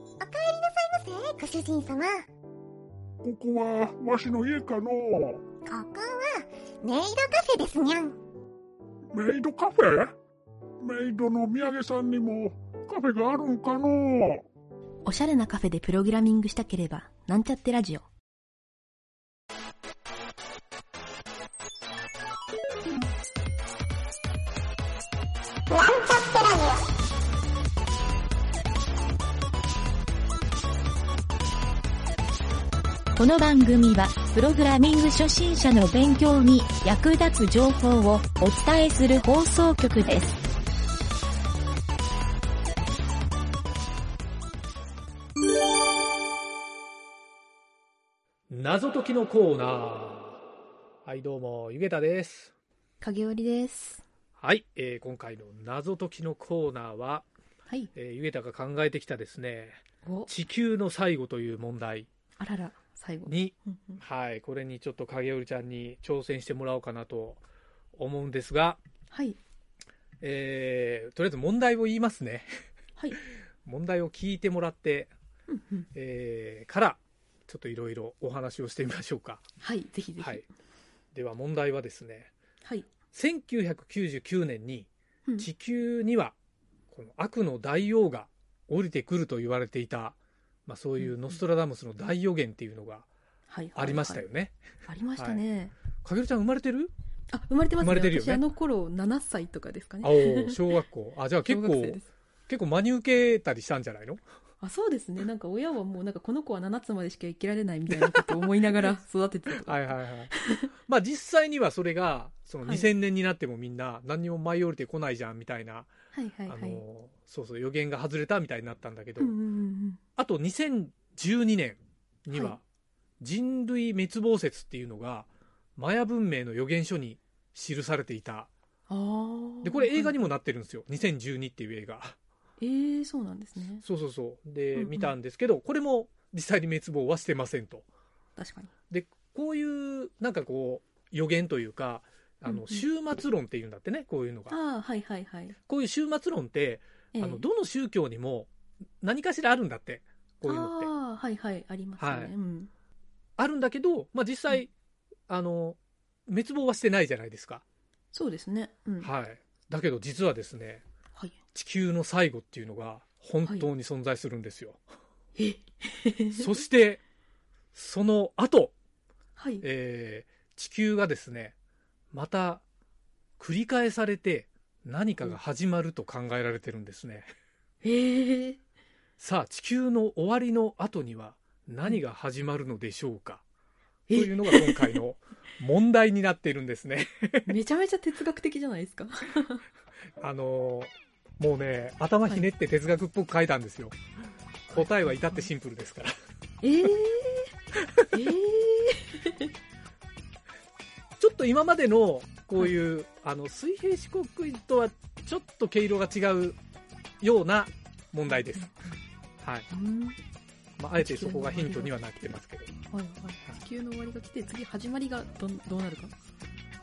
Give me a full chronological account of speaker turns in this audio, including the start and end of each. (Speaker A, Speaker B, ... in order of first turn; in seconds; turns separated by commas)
Speaker A: 0.2-2.2, Speaker B: 3.2-5.4, Speaker A: 5.6-8.2, Speaker B: 9.1-10.1, Speaker B: 10.8-14.4, Speaker C: 15.0-18.1, Speaker A: 25.7-26.8, Speaker D: 33.1-40.4, Speaker E: 48.5-50.4, Speaker E: 51.0-52.5, Speaker C: 53.0-54.0, Speaker E: 54.4-57.3, Speaker E: 57.9-62.1, Speaker C: 60.0-60.3, Speaker C: 62.4-64.0, Speaker E: 63.2-67.4, Speaker E: 67.9-68.8, Speaker C: 69.1-69.4, Speaker E: 70.2-72.5, Speaker E: 73.6-75.1, Speaker C: 75.5-75.9, Speaker E: 75.9-79.5, Speaker C: 79.6-80.5, Speaker E: 80.2-80.4, Speaker E: 81.1-82.3, Speaker C: 82.6-82.9, Speaker E: 83.1-86.3, Speaker E: 86.9-93.1, Speaker C: 91.0-91.3, Speaker C: 93.5-94.2, Speaker E: 93.7-94.6, Speaker C: 94.8-95.7, Speaker E: 95.2-95.4, Speaker E: 96.0-96.9, Speaker C: 97.3-100.7, Speaker E: 97.8-98.5, Speaker E: 100.0-104.2, Speaker C: 101.4-102.1, Speaker C: 104.6-110.7, Speaker E: 107.9-109.0, Speaker E: 109.5-110.3, Speaker E: 110.8-115.9, Speaker C: 116.1-116.8, Speaker E: 116.5-119.3, Speaker C: 119.2-120.0, Speaker E: 120.2-122.6, Speaker C: 122.3-122.6, Speaker E: 123.2-128.5, Speaker C: 128.9-130.3, Speaker E: 129.6-132.2, Speaker C: 132.6-133.8, Speaker E: 133.8-137.8, Speaker C: 134.7-135.1, Speaker C: 138.3-138.7, Speaker E: 138.9-144.6, Speaker C: 142.4-142.8, Speaker C: 144.5-145.6, Speaker E: 145.7-148.5, Speaker C: 147.1-147.4, Speaker E: 149.0-150.9, Speaker C: 150.4-152.7, Speaker E: 152.0-152.3, Speaker E: 153.4-154.7, Speaker E: 155.3-157.6, Speaker C: 158.1-159.1, Speaker E: 159.0-160.8, Speaker E: 161.5-164.8, Speaker C: 165.3-166.6, Speaker E: 166.3-167.0, Speaker E: 167.7-168.7, Speaker C: 169.4-169.6, Speaker E: 169.6-171.5, Speaker E: 172.1-172.6, Speaker E: 173.4-177.3, Speaker C: 177.8-178.6, Speaker E: 179.2-183.4, Speaker C: 184.1-185.0, Speaker E: 184.1-187.5, Speaker C: 187.4-189.6, Speaker E: 190.2-193.9, Speaker E: 194.7-196.1, Speaker C: 194.7-195.5, Speaker C: 196.6-197.5, Speaker C: 198.1-199.5, Speaker E: 201.2-206.6, Speaker E: 207.2-208.7, Speaker C: 208.3-209.0, Speaker E: 209.4-209.7, Speaker C: 209.7-210.2, Speaker E: 210.8-212.7, Speaker C: 210.9-212.3, Speaker C: 212.9-216.1